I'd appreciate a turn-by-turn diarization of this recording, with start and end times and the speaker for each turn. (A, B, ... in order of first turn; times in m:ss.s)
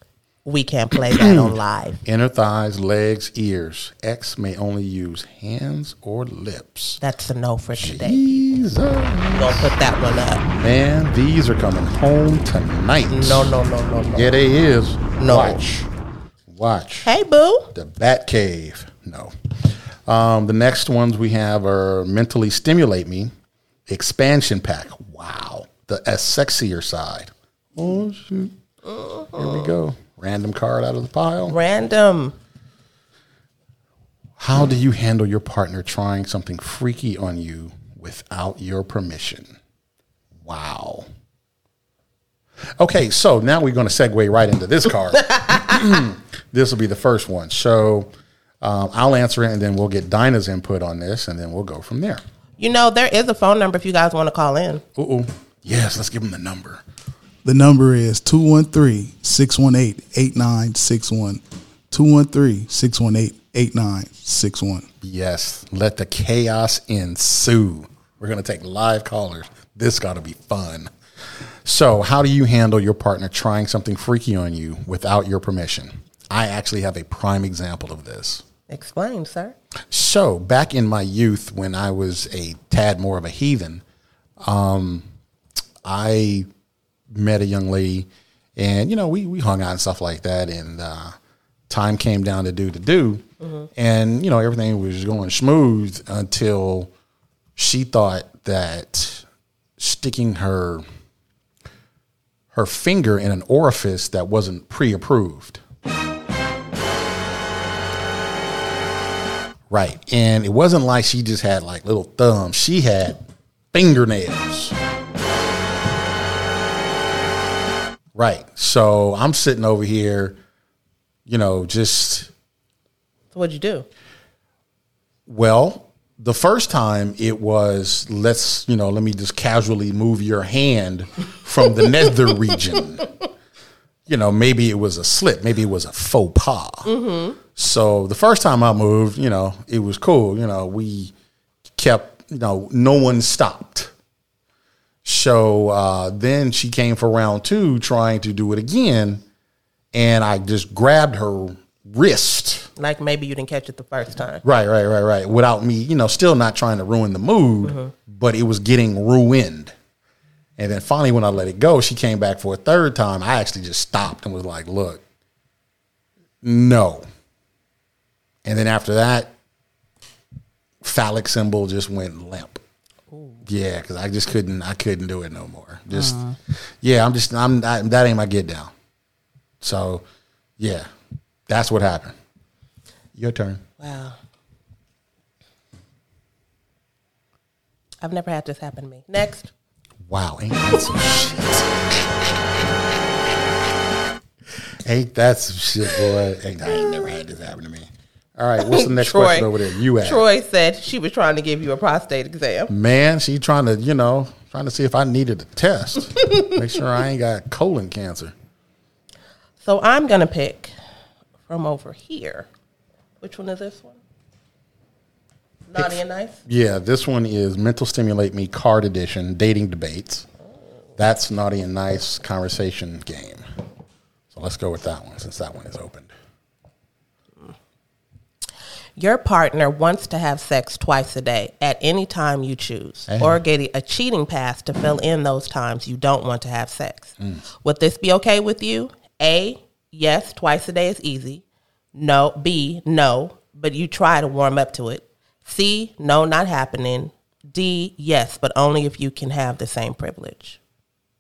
0:00.4-0:02.0 A
0:01.1-0:07.0 B
0:07.0-0:08.4 A
0:07.7-0:09.7 B
0:09.3-0:10.4 A
0:10.5-0:13.5 B
0:13.1-0:14.4 A
0:14.1-0:15.9 B
0:15.2-0:15.6 A
0:16.5-0:17.1 B
0:17.0-0:17.7 A
0:17.7-0:23.3 B
0:23.9-0:28.5 B
0:28.9-0:29.7 A
0:29.3-0:31.6 B
0:31.5-0:32.4 A
0:34.4-0:39.5 B
0:40.4-0:41.1 B
0:42.8-0:52.2 B
0:45.3-0:45.8 A
0:52.6-0:54.8 A
0:55.0-0:56.8 B
0:57.4-1:04.9 C
1:05.0-1:10.9 B
1:11.6-1:18.4 B
1:18.7-1:19.6 A
1:19.9-1:23.8 B
1:24.4-1:25.1 B
1:25.8-1:26.5 B
1:27.1-1:31.2 B
1:31.7-1:33.2 B
1:33.4-1:33.7 A
1:33.8-1:36.9 B
1:37.6-1:39.2 B
1:39.8-1:40.8 B
1:42.5-1:45.6 B
1:49.7-1:53.2 B
1:53.7-1:54.8 B
1:58.1-2:00.4 B
2:01.2-2:02.3 B
2:03.3-2:03.8 A
2:05.3-2:13.1 B
2:14.1-2:16.9 B
2:16.8-2:17.4 A
2:17.5-2:21.1 B
2:21.8-2:23.9 B
2:25.0-2:29.2 B
2:29.9-2:32.7 B
2:32.8-2:34.4 A
2:34.4-2:39.7 B
2:37.6-2:37.9 A
2:40.6-2:45.0 B
2:46.4-2:47.0 B
2:48.4-2:49.3 B
2:50.8-2:52.6 B
2:53.1-2:53.4 A
2:53.4-2:58.7 B
2:55.9-2:56.4 A
2:59.6-3:00.0 B
3:00.6-3:00.9 B
3:01.5-3:02.2 B
3:03.1-3:03.6 B
3:03.8-3:04.2 A
3:08.0-3:09.5 A
3:10.0-3:12.0 B
3:14.8-3:20.2 B
3:18.6-3:22.7 A
3:22.7-3:28.3 B
3:29.6-3:30.7 A
3:31.4-3:32.5 A
3:33.2-3:34.0 A
3:35.7-3:36.4 A
3:35.7-3:40.2 B
3:41.0-3:43.4 B
3:44.3-3:46.1 B
3:49.0-4:01.4 A
3:53.1-3:53.4 B
4:01.9-4:10.6 A